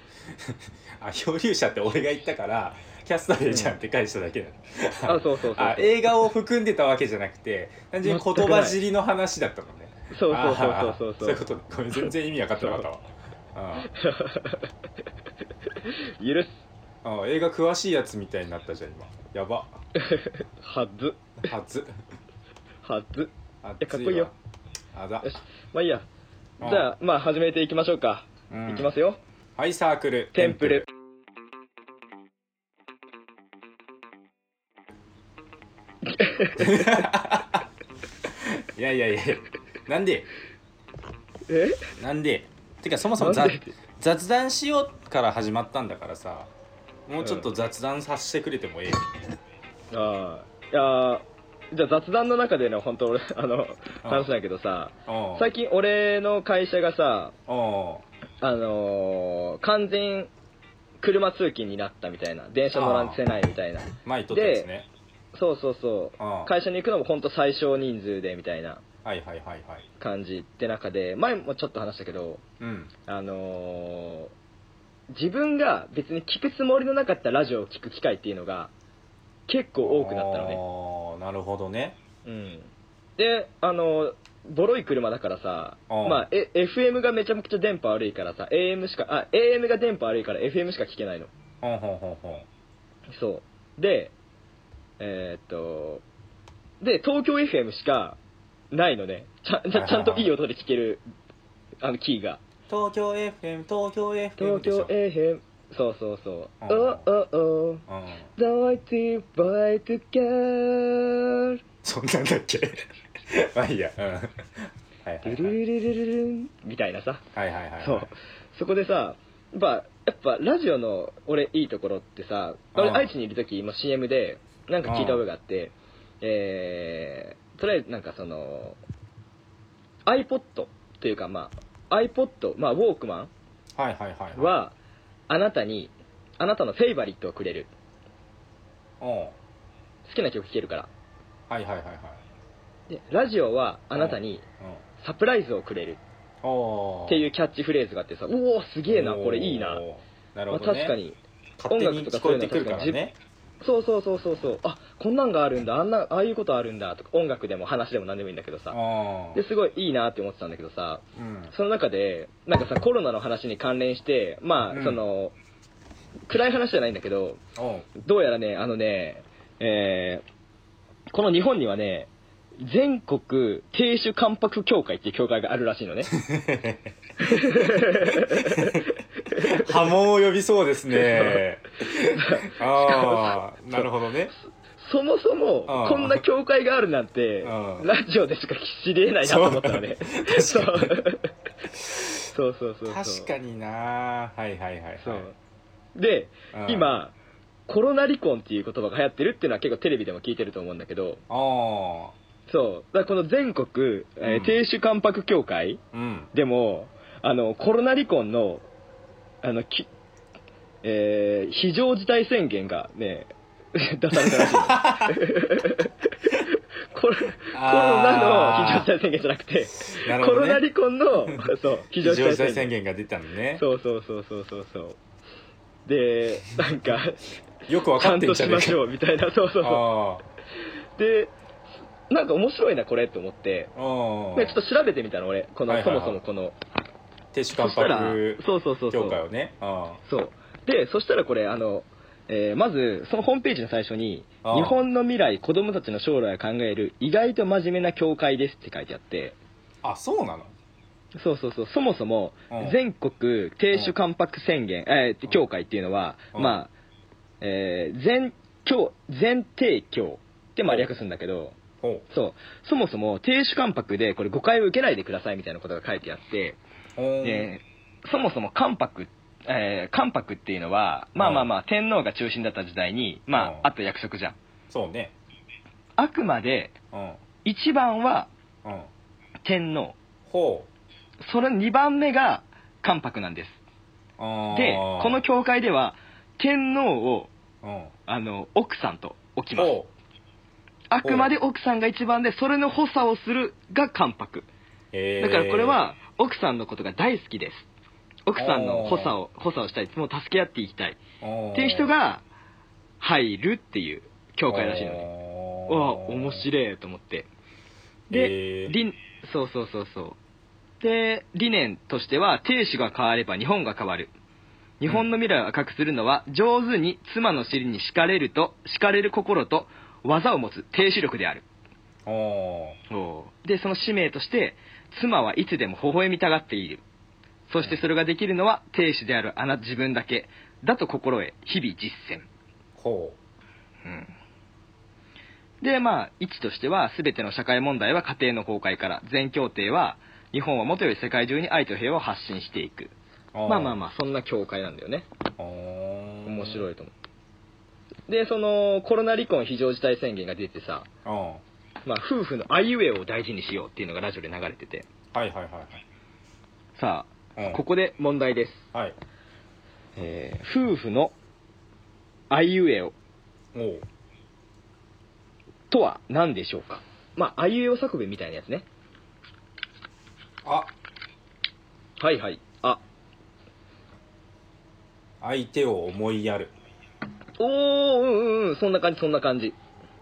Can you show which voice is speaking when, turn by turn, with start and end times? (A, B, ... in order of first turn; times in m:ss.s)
0:00.3-0:13.9 A
0:03.5-0:03.8 B
0:05.0-0:06.3 B
0:08.0-0:08.8 B
0:10.1-0:11.4 B
0:12.6-0:12.8 B
0:13.8-0:14.7 B
0:15.7-0:16.6 B
0:17.0-0:19.8 A
0:20.0-0:21.3 B
0:21.4-0:22.0 A
0:22.8-0:24.3 B
0:23.6-0:24.3 A
0:24.9-0:25.3 A
0:25.2-0:26.0 B
0:26.6-0:26.9 A
0:26.6-0:29.2 B
0:28.5-0:28.9 A
0:29.6-0:30.9 A
0:30.3-0:30.9 B
0:36.0-0:37.1 B
0:36.6-0:37.6 A
0:38.3-0:40.3 A
0:41.5-0:41.9 B
0:42.0-0:46.5 A
0:43.2-0:43.8 B
0:47.1-0:49.0 A
0:47.2-0:47.5 B
0:49.9-0:57.3 B
0:54.0-0:54.3 A
0:55.1-0:55.5 A
0:57.5-0:58.0 A
0:58.4-1:00.3 B
1:01.0-1:04.7 B
1:02.7-1:03.2 A
1:04.0-1:04.9 A
1:05.3-1:08.8 B
1:06.2-1:06.5 A
1:09.0-1:09.9 A
1:10.0-1:12.4 B
1:12.6-1:12.9 A
1:13.1-1:14.3 B
1:15.1-1:18.7 B
1:19.5-1:20.6 B
1:19.8-1:22.0 A
1:22.2-1:31.3 B
1:25.9-1:26.2 A
1:31.6-1:32.5 A
1:33.1-1:34.1 B
1:35.0-1:36.0 B
1:36.8-1:38.2 B
1:38.7-1:41.0 B
1:39.7-1:40.3 A
1:41.8-1:42.4 B
1:42.7-1:44.9 A
1:44.4-1:47.8 B
1:46.6-1:47.1 A
1:47.9-1:48.3 A
1:48.4-1:51.6 B
1:51.8-1:55.6 A
1:55.2-1:57.2 B
1:57.3-1:58.1 A
1:57.8-2:08.8 B
2:02.7-2:03.1 A
2:04.8-2:05.2 A
2:10.1-2:13.3 B
2:13.8-2:14.5 A
2:14.3-2:14.7 B
2:15.3-2:17.7 B
2:19.0-2:19.4 A
2:20.0-2:20.9 B
2:21.5-2:22.2 A
2:22.9-2:24.4 B
2:23.9-2:24.8 A
2:25.0-2:26.0 B
2:26.4-2:27.3 A
2:27.1-2:29.8 B
2:28.9-2:31.0 A
2:30.5-2:33.0 B
2:31.6-2:33.1 A
2:33.6-2:38.8 B
2:38.7-2:39.4 A
2:39.3-2:45.3 B
2:41.2-2:41.5 A
2:44.7-2:45.0 A
2:46.3-2:47.4 B
2:47.6-2:47.9 A
2:47.9-2:50.2 B
2:51.1-2:56.1 B
2:56.1-3:04.3 A
2:57.2-2:59.8 B
3:00.9-3:01.4 B
3:02.0-3:03.9 B
3:04.7-3:11.3 B
3:05.7-3:06.2 A
3:07.4-3:07.9 A
3:09.2-3:10.9 A
3:11.8-3:12.2 A
3:12.3-3:13.3 B
3:12.8-3:15.3 A
3:15.0-3:15.3 B
3:15.9-3:17.1 B
3:16.5-3:17.0 A
3:17.7-3:21.2 B
3:21.3-3:22.1 A
3:22.5-3:25.8 B
3:24.2-3:24.6 A
3:25.9-3:26.3 A
3:26.3-3:28.6 B
3:29.4-3:29.9 B
3:30.8-3:42.7 B
3:34.1-3:35.2 A
3:37.5-3:38.9 A
3:39.8-3:40.6 A
3:42.0-3:43.6 A
3:43.6-3:45.0 B
3:45.8-3:47.3 B
3:47.7-3:48.8 A
3:47.9-3:49.9 B
3:49.6-3:50.2 A
3:51.0-3:51.3 B
3:52.1-3:53.7 B
3:53.7-3:54.6 A
3:54.3-3:56.6 B
3:55.7-3:56.2 A
3:57.3-4:00.0 A
3:57.5-3:59.2 B
4:00.1-4:09.4 B
4:04.4-4:04.8 A
4:09.8-4:10.5 A
4:11.2-4:16.7 B
4:12.5-4:12.8 A
4:16.3-4:16.6 A
4:17.4-4:21.6 B
4:21.8-4:22.0 A
4:22.1-4:26.6 B
4:27.0-4:27.5 A
4:27.2-4:34.4 B
4:31.2-4:31.5 A
4:33.3-4:33.7 A
4:34.7-4:35.1 A
4:36.0-4:36.7 B
4:36.9-4:37.2 A
4:37.4-4:38.3 B
4:38.6-4:38.9 A
4:39.4-4:40.0 B
4:40.3-4:40.7 A
4:41.2-4:43.6 B
4:44.2-4:45.2 A
4:44.5-4:47.3 B
4:47.6-4:47.9 A
4:48.1-4:49.8 B
4:49.6-4:49.9 A
4:50.9-4:54.5 B
4:51.0-4:51.3 A
4:54.9-4:55.8 A
4:55.2-4:57.6 B
4:58.3-5:01.0 B
4:58.4-4:59.1 A
5:01.2-5:01.9 A
5:01.5-5:02.2 B
5:03.0-5:05.1 B
5:04.5-5:06.4 A
5:05.7-5:07.3 B
5:08.1-5:10.2 B
5:08.1-5:08.8 A
5:10.8-5:14.1 B
5:14.8-5:21.4 B
5:22.0-5:22.8 A
5:22.9-5:26.8 B
5:27.5-5:32.3 B
5:32.8-5:33.2 A
5:33.8-5:34.1 B
5:35.6-5:42.9 B
5:43.3-5:43.8 A
5:43.5-5:45.1 B
5:45.4-5:46.6 A
5:46.2-5:46.9 B
5:48.1-5:50.9 B
5:51.0-5:51.4 A
5:51.8-5:54.9 B
5:55.1-5:55.8 A
5:56.8-5:58.7 B
5:57.4-5:57.6 A
6:00.0-6:01.1 B
6:02.3-6:02.9 B
6:03.5-6:03.8 A
6:05.7-6:08.6 B
6:10.4-6:10.7 A
6:12.0-6:12.8 B
6:15.2-6:16.5 A
6:17.4-6:19.6 B